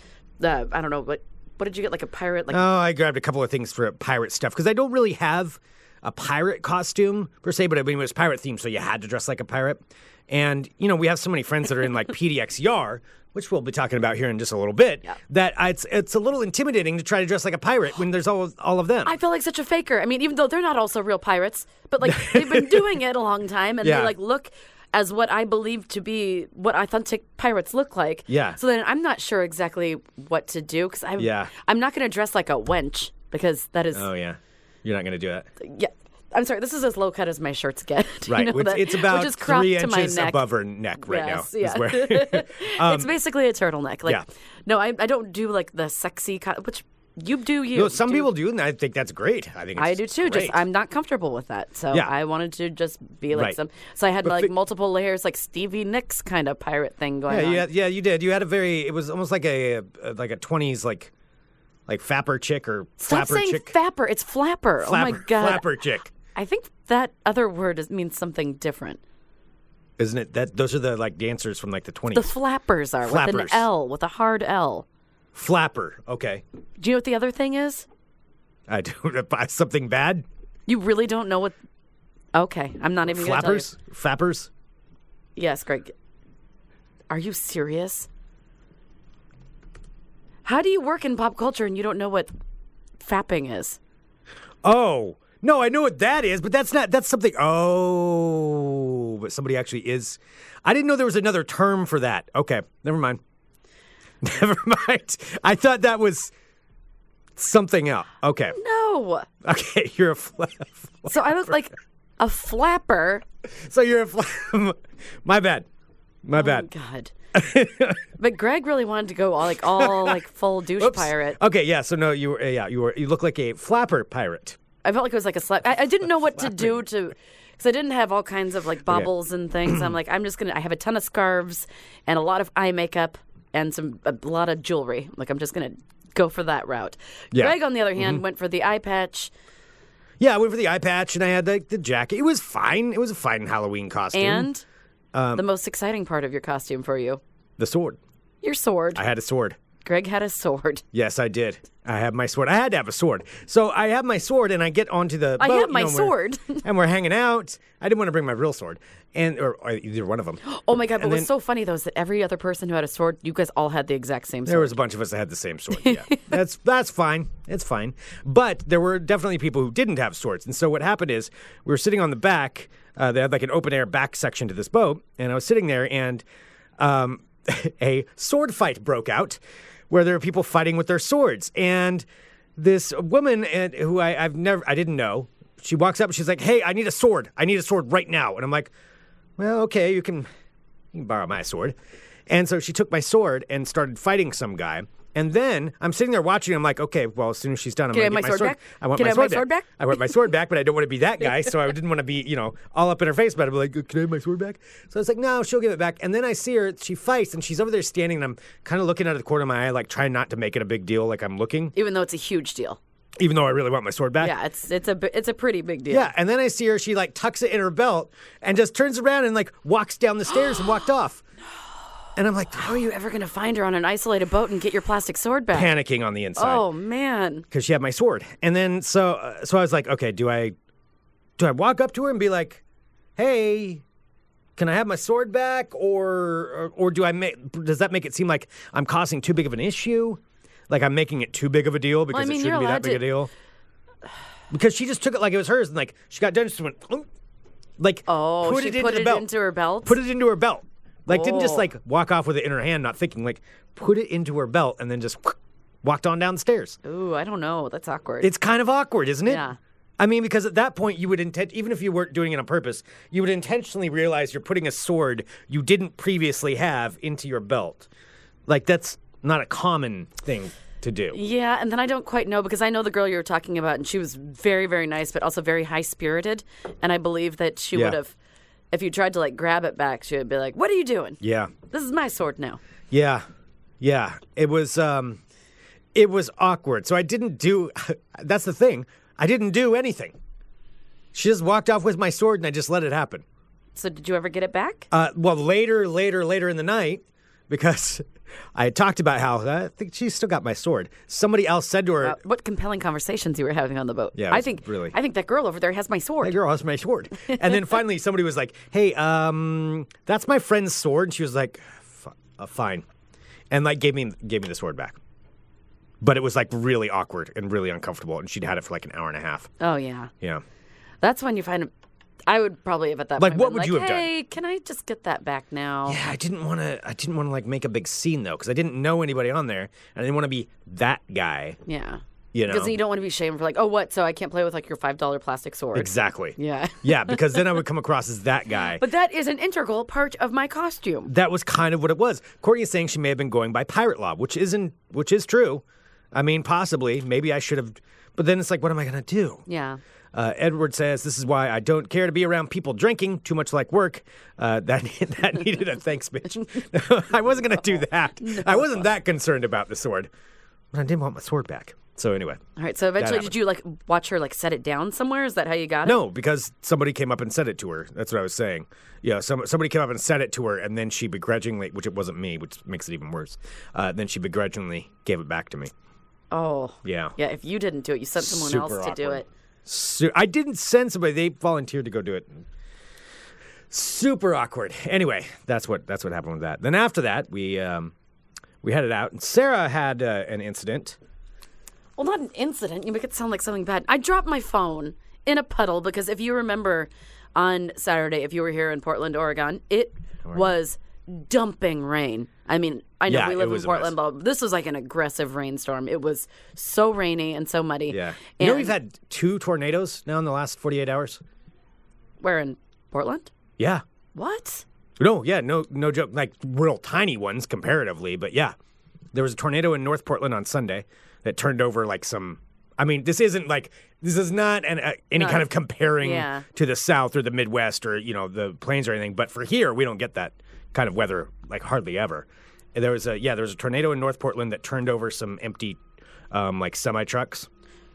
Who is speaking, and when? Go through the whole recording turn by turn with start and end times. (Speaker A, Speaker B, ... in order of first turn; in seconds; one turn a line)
Speaker A: 0.4-2.7
Speaker B: 2.5-19.1
Speaker A: 19.1-34.1
Speaker B: 22.1-23.0
Speaker B: 23.8-24.1
Speaker B: 28.3-28.6
Speaker B: 31.2-31.5
Speaker B: 33.9-35.5
Speaker A: 35.6-40.4
Speaker B: 38.3-43.1
Speaker A: 41.0-48.3
Speaker B: 47.7-50.6
Speaker A: 49.8-57.7
Speaker B: 54.2-54.5
Speaker B: 57.3-61.1
Speaker B: 61.9-63.7
Speaker A: 63.0-65.7
Speaker B: 64.8-66.1
Speaker A: 66.3-69.0
Speaker B: 70.0-72.3
Speaker A: 72.1-74.9
Speaker B: 73.0-73.7
Speaker B: 75.3-76.4
Speaker A: 76.8-77.9
Speaker B: 78.7-80.2
Speaker A: 80.7-81.6
Speaker A: 82.3-83.7
Speaker B: 83.1-84.5
Speaker A: 85.4-85.9
Speaker A: 87.1-88.1
Speaker A: 90.5-92.3
Speaker A: 93.0-93.8
Speaker B: 94.6-103.2
Speaker B: 104.2-106.3
Speaker B: 107.4-108.6
Speaker A: 108.5-109.3
Speaker B: 109.4-111.5
Speaker A: 111.1-113.2
Speaker B: 113.5-115.7
Speaker B: 116.2-116.7
Speaker A: 116.3-117.1
Speaker B: 117.3-118.0
Speaker A: 118.2-121.4
Speaker B: 119.6-120.2
Speaker B: 120.8-124.6
Speaker A: 124.8-139.3
Speaker B: 137.3-138.2
Speaker B: 140.2-144.5
Speaker A: 144.1-144.7
Speaker B: 145.1-145.4
Speaker A: 145.3-147.2
Speaker B: 147.6-148.0
Speaker A: 148.4-149.0
Speaker B: 148.9-149.6
Speaker A: 149.8-150.8
Speaker B: 150.9-160.4
Speaker A: 155.4-156.6
Speaker A: 160.4-164.8
Speaker B: 161.0-161.3
Speaker B: 164.5-176.2
Speaker A: 165.8-166.3
Speaker B: 176.8-182.1
Speaker B: 182.6-188.7
Speaker B: 189.4-190.3
Speaker B: 190.9-191.8
Speaker B: 192.3-211.7
Speaker A: 197.9-199.8
Speaker A: 211.8-212.8
Speaker B: 213.2-214.3
Speaker A: 214.2-216.1
Speaker B: 215.9-221.2
Speaker B: 222.2-222.9
Speaker A: 222.6-225.7
Speaker B: 225.5-226.7
Speaker A: 226.4-227.4
Speaker B: 227.5-230.6
Speaker B: 231.4-232.6
Speaker B: 233.2-233.8
Speaker B: 234.6-243.3
Speaker A: 242.1-243.1
Speaker B: 244.5-247.1
Speaker B: 247.8-249.3
Speaker A: 248.1-250.0
Speaker B: 249.8-256.8
Speaker A: 251.1-251.7
Speaker A: 256.8-258.3
Speaker B: 258.2-259.4
Speaker A: 259.3-259.6
Speaker B: 260.0-267.9
Speaker B: 268.5-271.2
Speaker A: 271.1-278.1
Speaker B: 277.7-278.0
Speaker A: 278.7-282.6
Speaker B: 281.2-281.5
Speaker B: 282.9-283.2
Speaker B: 283.8-285.2
Speaker B: 285.9-290.2
Speaker B: 291.1-293.2
Speaker A: 293.8-294.9
Speaker B: 294.9-298.0
Speaker B: 298.6-302.2
Speaker A: 302.0-306.4
Speaker B: 304.1-304.9
Speaker B: 306.2-312.9
Speaker B: 313.5-315.0
Speaker B: 316.0-319.5
Speaker A: 319.6-320.1
Speaker A: 321.0-321.7
Speaker A: 322.3-326.0
Speaker B: 323.2-324.1
Speaker B: 325.9-331.6
Speaker A: 331.7-337.4
Speaker B: 332.3-332.8
Speaker B: 335.8-338.8
Speaker A: 338.7-341.1
Speaker B: 341.1-349.4
Speaker A: 349.5-349.8
Speaker B: 350.1-360.1
Speaker A: 358.2-358.8
Speaker B: 360.7-362.4
Speaker A: 362.6-366.0
Speaker B: 363.0-363.4
Speaker B: 365.9-375.7
Speaker A: 376.3-379.3
Speaker B: 376.8-377.1
Speaker B: 378.2-382.4
Speaker B: 383.7-387.9
Speaker B: 388.6-391.0
Speaker A: 392.0-408.7
Speaker B: 403.1-403.9
Speaker B: 407.9-411.2
Speaker A: 412.2-413.3
Speaker B: 413.6-413.8
Speaker A: 414.1-414.6
Speaker B: 415.0-418.5
Speaker B: 419.1-435.8
Speaker A: 425.2-425.5
Speaker A: 426.0-426.5
Speaker B: 436.3-437.5